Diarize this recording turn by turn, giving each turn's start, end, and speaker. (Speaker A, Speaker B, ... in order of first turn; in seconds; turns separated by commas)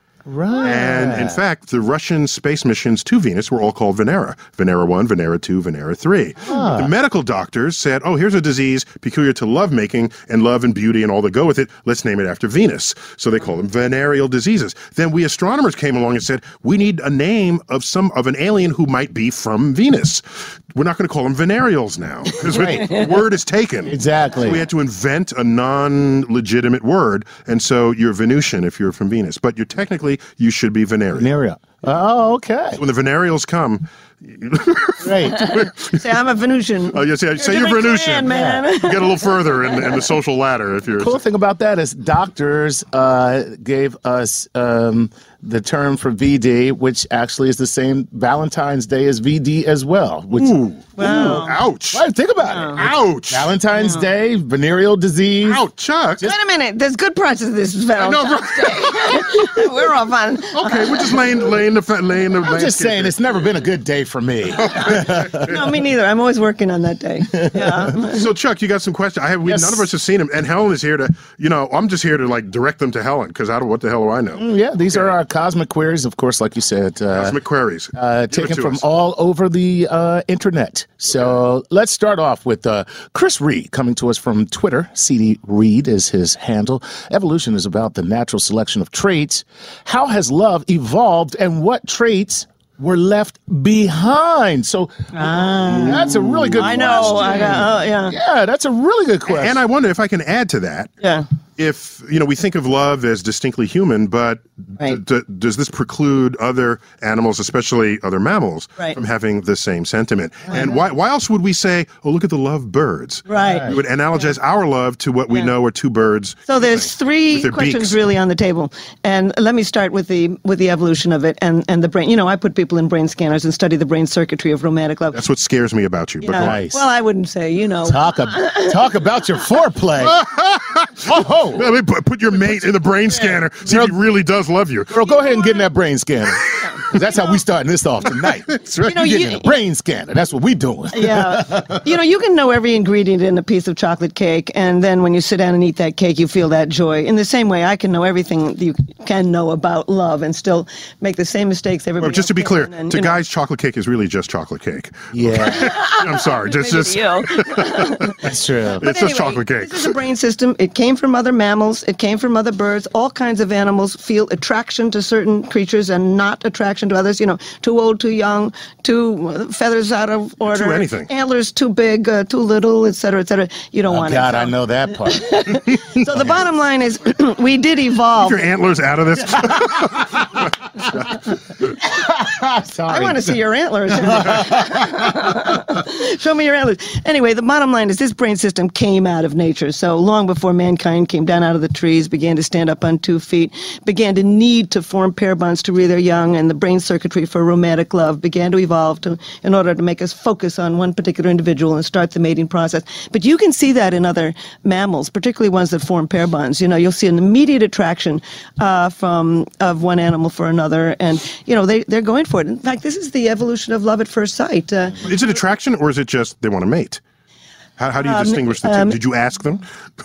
Speaker A: 0.2-1.4, Speaker B: 0.6-31.3, Speaker A: 6.4-6.9, Speaker A: 22.4-23.0, Speaker A: 23.9-24.6, Speaker A: 31.1-32.8, Speaker B: 32.8-36.0, Speaker A: 35.0-35.6, Speaker C: 35.4-39.8, Speaker B: 36.9-41.1, Speaker A: 38.2-38.6, Speaker A: 41.0-55.7, Speaker B: 50.4-52.1, Speaker C: 51.0-51.6, Speaker C: 52.5-52.8, Speaker B: 52.8-53.5, Speaker B: 55.4-56.2, Speaker C: 56.2-61.2, Speaker B: 58.0-59.6, Speaker B: 60.5-63.4, Speaker A: 62.4-65.5, Speaker B: 64.6-65.7, Speaker C: 65.4-68.2, Speaker B: 68.0-75.1, Speaker A: 69.4-69.8, Speaker A: 74.4-77.4, Speaker B: 77.1-78.8, Speaker A: 77.9-99.6, Speaker C: 95.1-98.2, Speaker B: 96.8-97.6, Speaker B: 99.3-100.9, Speaker C: 101.0-101.2, Speaker B: 101.6-118.0, Speaker C: 110.5-110.8, Speaker C: 113.3-114.3, Speaker A: 113.4-113.8, Speaker C: 116.5-125.2, Speaker B: 125.1-126.6, Speaker C: 126.2-128.8, Speaker A: 126.3-126.8, Speaker A: 127.8-130.2, Speaker B: 130.0-135.1, Speaker A: 131.0-131.8, Speaker A: 133.6-133.9, Speaker A: 134.9-141.8, Speaker C: 135.1-135.6, Speaker C: 136.6-136.9, Speaker B: 138.2-138.9, Speaker C: 138.8-139.6, Speaker C: 140.9-153.2, Speaker B: 152.0-159.9, Speaker A: 155.1-155.8, Speaker C: 155.4-158.2, Speaker A: 158.2-158.8, Speaker C: 158.8-178.4, Speaker B: 170.4-171.1, Speaker A: 173.9-175.6, Speaker B: 178.2-181.2, Speaker A: 181.8-183.4, Speaker C: 182.9-215.2, Speaker A: 183.9-185.1, Speaker B: 215.0-217.0, Speaker B: 217.8-219.6, Speaker C: 218.0-219.0